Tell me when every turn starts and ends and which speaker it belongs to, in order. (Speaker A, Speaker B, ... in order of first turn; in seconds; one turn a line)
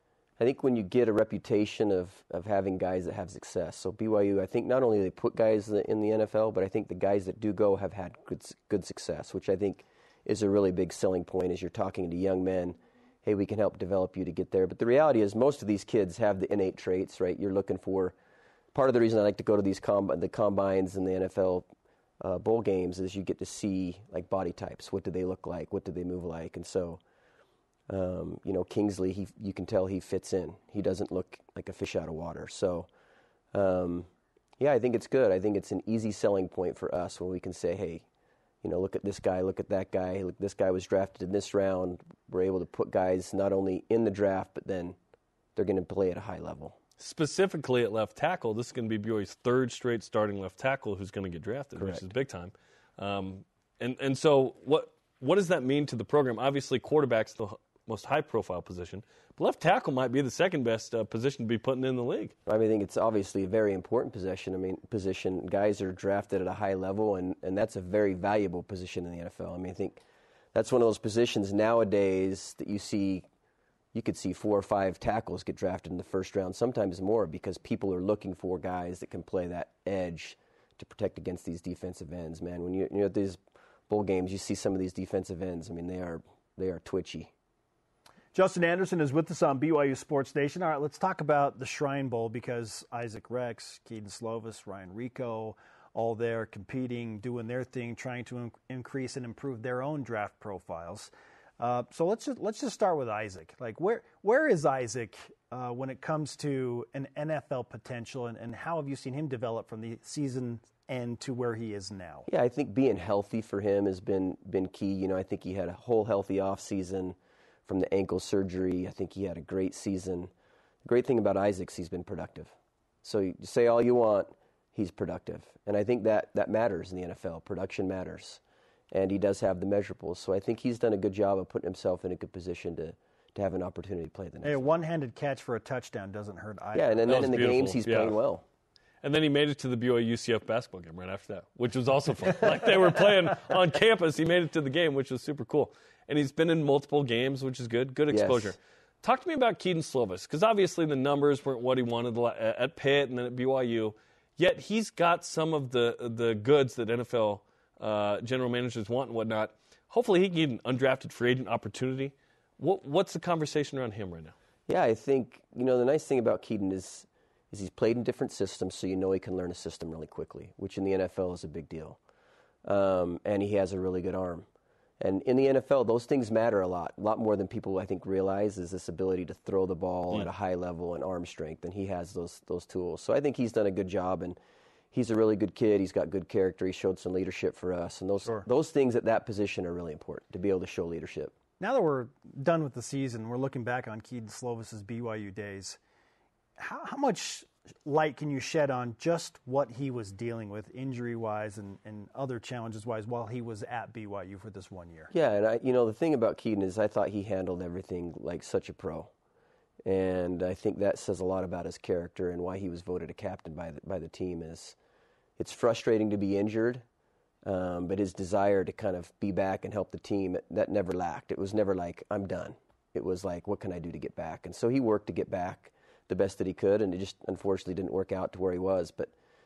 Speaker A: 0.4-18.1
Speaker A: 18.7-21.7
Speaker A: 22.2-27.0
Speaker A: 27.9-32.9
Speaker A: 33.5-34.1
Speaker A: 34.6-38.0
Speaker A: 38.6-45.0
Speaker A: 45.5-46.8
Speaker B: 47.0-62.3
Speaker A: 51.8-52.1
Speaker A: 62.5-70.0
Speaker A: 70.5-73.2
Speaker A: 73.9-83.4
Speaker A: 83.9-87.3
Speaker C: 88.3-112.3
Speaker A: 112.3-120.3
Speaker A: 120.8-128.4
Speaker A: 128.9-134.6
Speaker C: 134.4-137.1
Speaker A: 136.7-138.4
Speaker B: 137.1-138.2
Speaker B: 139.0-164.3
Speaker A: 148.1-148.5
Speaker A: 164.7-172.0
Speaker A: 172.6-174.4
Speaker A: 175.0-184.4
Speaker A: 184.9-191.3
Speaker C: 191.6-195.8
Speaker C: 196.6-205.1
Speaker A: 205.1-209.1
Speaker A: 209.8-214.8
Speaker A: 215.4-216.8
Speaker A: 217.4-229.1